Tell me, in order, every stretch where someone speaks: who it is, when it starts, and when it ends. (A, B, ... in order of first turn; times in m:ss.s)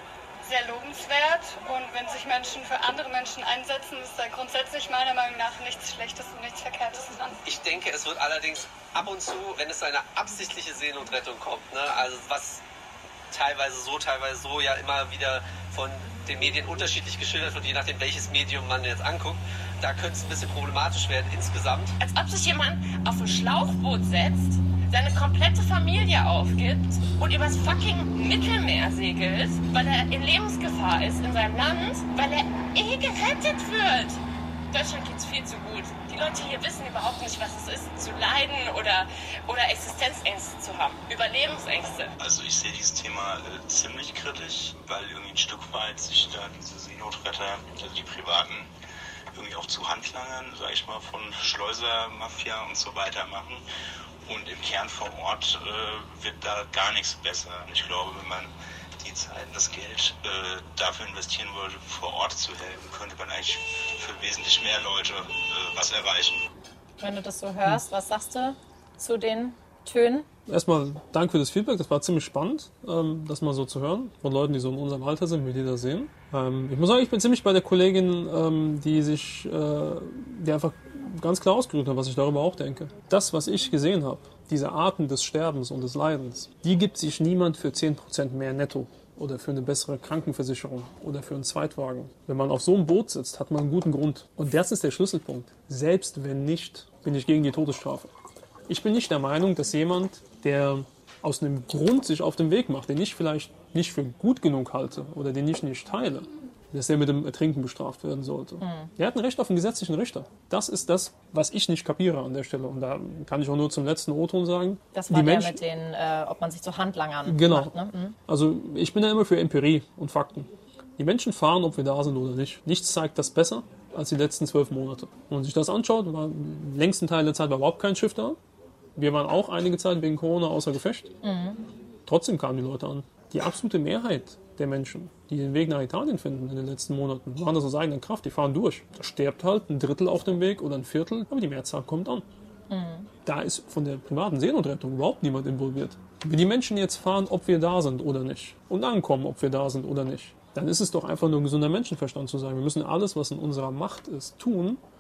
0:00.4-0:07.4 A
0:07.4-0:12.6 B
0:13.3-0:22.0 B
0:22.0-0:42.1 C
0:42.2-0:48.7 D
0:49.3-0:53.6 D
0:54.3-1:06.4 D
1:07.0-1:10.3 E
1:10.5-1:38.1 F
1:38.7-1:55.6 F
1:48.6-1:48.9 E
1:54.9-1:58.2 E
1:57.3-1:57.7 F
1:58.3-2:08.4 F
2:09.0-2:11.1 F
2:11.2-2:11.6 E
2:12.1-2:22.2 F
2:22.7-2:23.1 E
2:23.2-2:34.8 F